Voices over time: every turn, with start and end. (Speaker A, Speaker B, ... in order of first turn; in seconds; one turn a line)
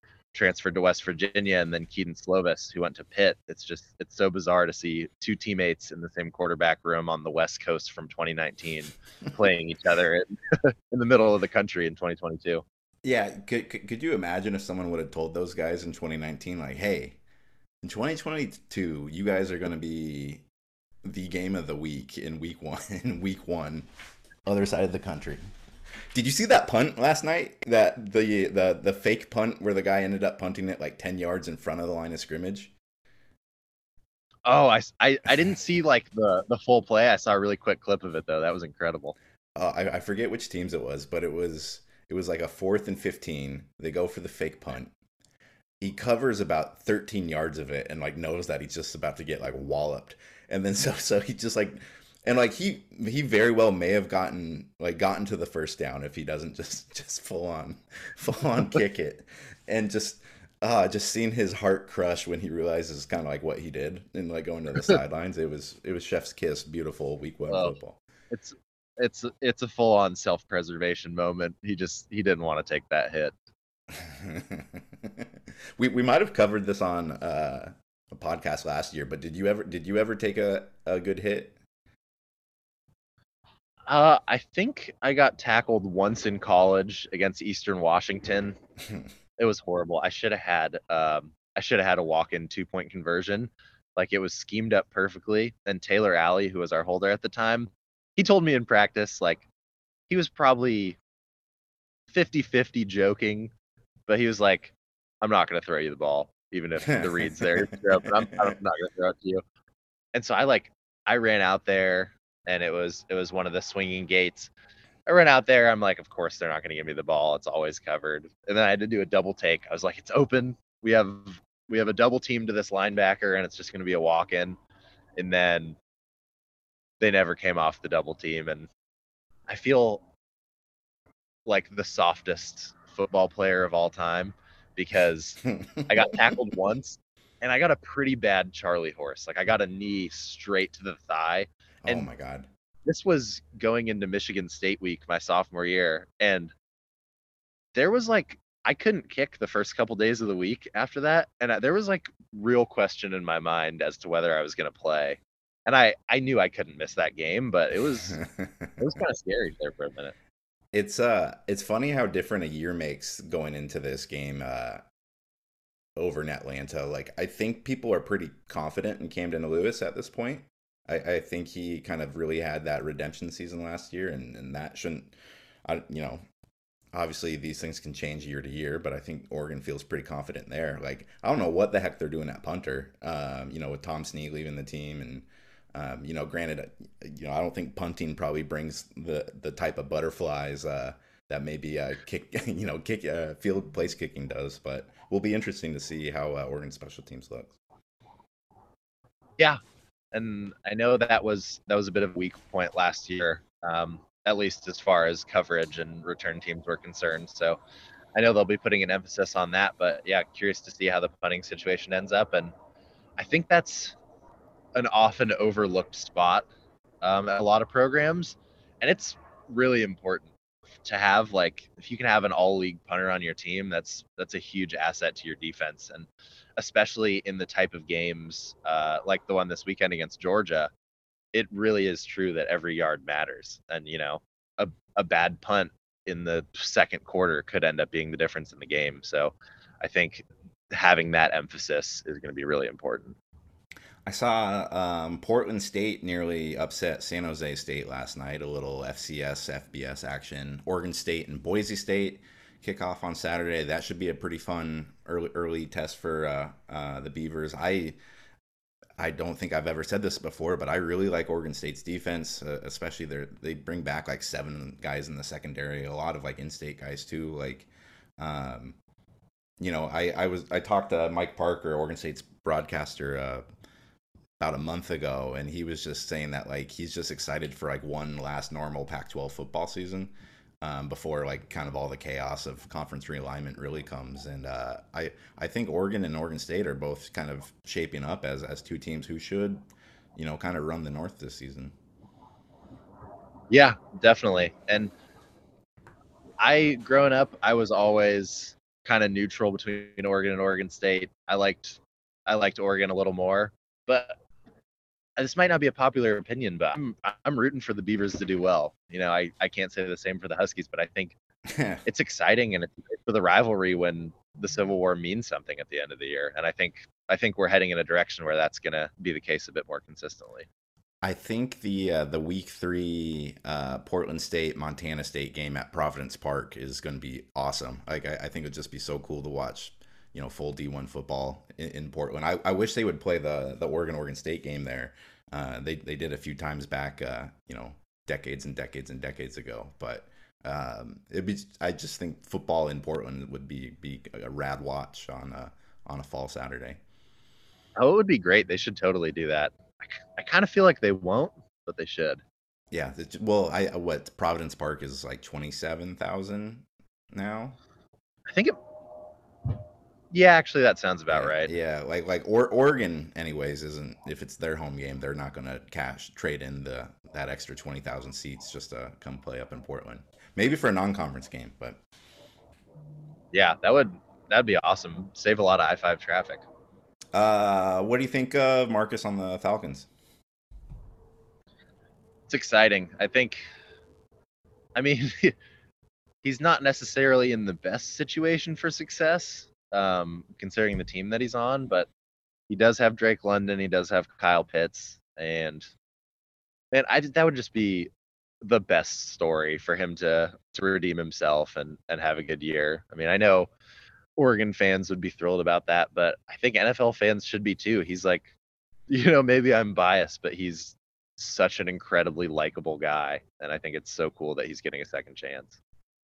Speaker A: 0.3-12.6
Speaker B: 13.0-17.2
Speaker B: 17.8-20.4
Speaker B: 21.0-23.9
Speaker B: 24.4-25.4
Speaker B: 26.1-32.7
Speaker A: 34.5-39.1
Speaker B: 39.5-44.9
Speaker B: 45.8-68.0
Speaker A: 67.5-67.8
Speaker A: 68.3-73.3
Speaker B: 73.9-81.6
Speaker A: 83.9-88.6
Speaker A: 89.4-99.5
Speaker A: 100.1-101.0
Speaker A: 102.1-103.5
Speaker A: 104.1-109.4
Speaker B: 106.9-108.5
Speaker A: 110.1-114.5
Speaker A: 115.0-124.6
Speaker A: 125.2-125.8
Speaker A: 127.0-128.7
Speaker A: 129.5-130.0
Speaker A: 131.4-142.0
Speaker B: 141.8-142.5
Speaker A: 142.8-146.5
Speaker A: 147.7-158.2
Speaker B: 158.1-158.8
Speaker A: 158.8-160.1
Speaker B: 160.7-164.8
Speaker B: 166.0-175.1
Speaker B: 175.6-176.2
Speaker B: 176.9-197.5
Speaker A: 200.1-207.6
Speaker A: 208.1-212.5
Speaker A: 213.2-213.9
Speaker A: 214.7-216.5
Speaker A: 217.0-220.3
Speaker A: 220.8-230.7
Speaker A: 231.3-243.2
Speaker B: 244.1-258.0
Speaker B: 259.0-268.8
Speaker B: 269.6-273.4
Speaker B: 274.4-289.6
Speaker B: 290.1-291.7
Speaker A: 293.5-294.9
Speaker A: 296.4-304.2
Speaker A: 305.2-311.1
Speaker B: 311.5-311.8
Speaker A: 311.9-320.5
Speaker B: 321.0-346.8
Speaker A: 347.8-352.2
Speaker B: 352.7-357.6
Speaker A: 358.3-358.6
Speaker A: 360.1-361.5
Speaker B: 361.1-371.8
Speaker A: 373.3-376.4
Speaker B: 377.1-379.9
Speaker A: 382.3-383.4
Speaker A: 384.7-385.3
Speaker A: 386.2-391.9
Speaker A: 392.5-395.7
Speaker A: 396.7-397.9
Speaker A: 398.4-403.5
Speaker A: 404.2-408.3
Speaker A: 408.9-415.6